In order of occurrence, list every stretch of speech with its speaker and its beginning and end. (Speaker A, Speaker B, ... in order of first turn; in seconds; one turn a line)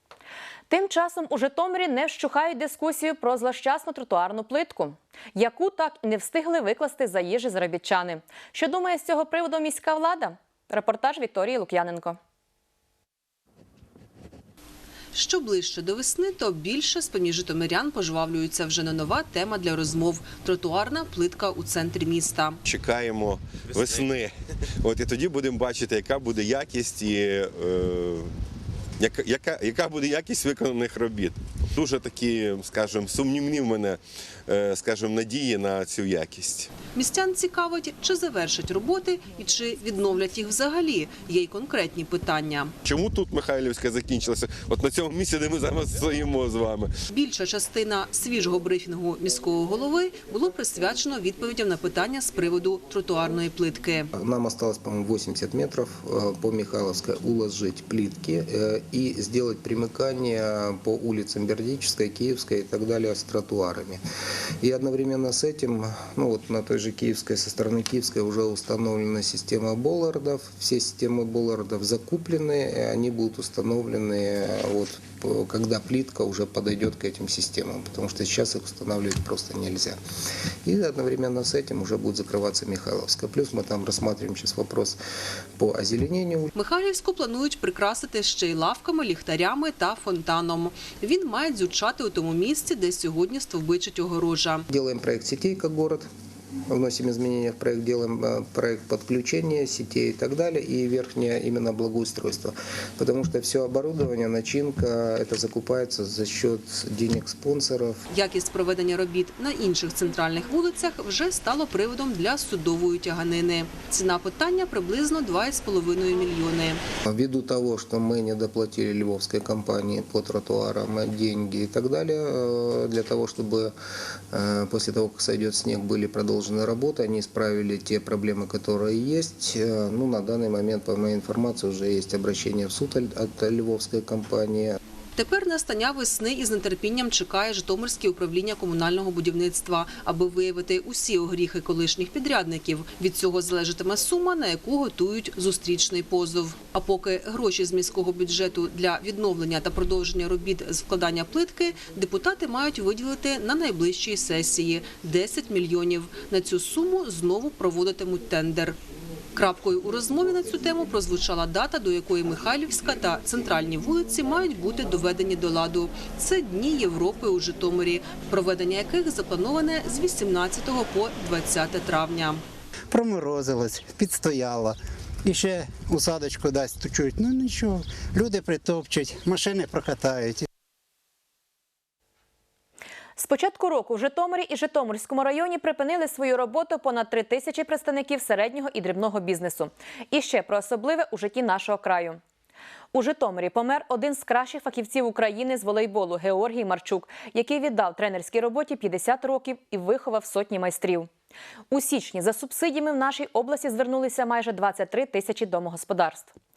Speaker A: 0.7-12.2
Speaker B: 15.1-22.6
Speaker C: 22.6-28.3
Speaker C: 29.0-36.7
Speaker B: 36.9-42.7
Speaker C: 42.8-46.9
Speaker B: 47.1-54.1
Speaker D: 54.1-64.0
Speaker D: 64.6-80.0
Speaker D: 80.7-85.0
Speaker D: 85.6-86.5
Speaker B: 86.5-94.7
Speaker D: 94.7-96.1
Speaker D: 96.7-108.0
Speaker B: 108.1-116.8
Speaker D: 117.0-123.7
Speaker D: 124.3-134.8
Speaker B: 135.2-158.8
Speaker B: 159.3-172.4
Speaker E: 172.9-180.5
Speaker A: 183.2-192.2
Speaker A: 192.9-201.1
Speaker A: 201.7-206.3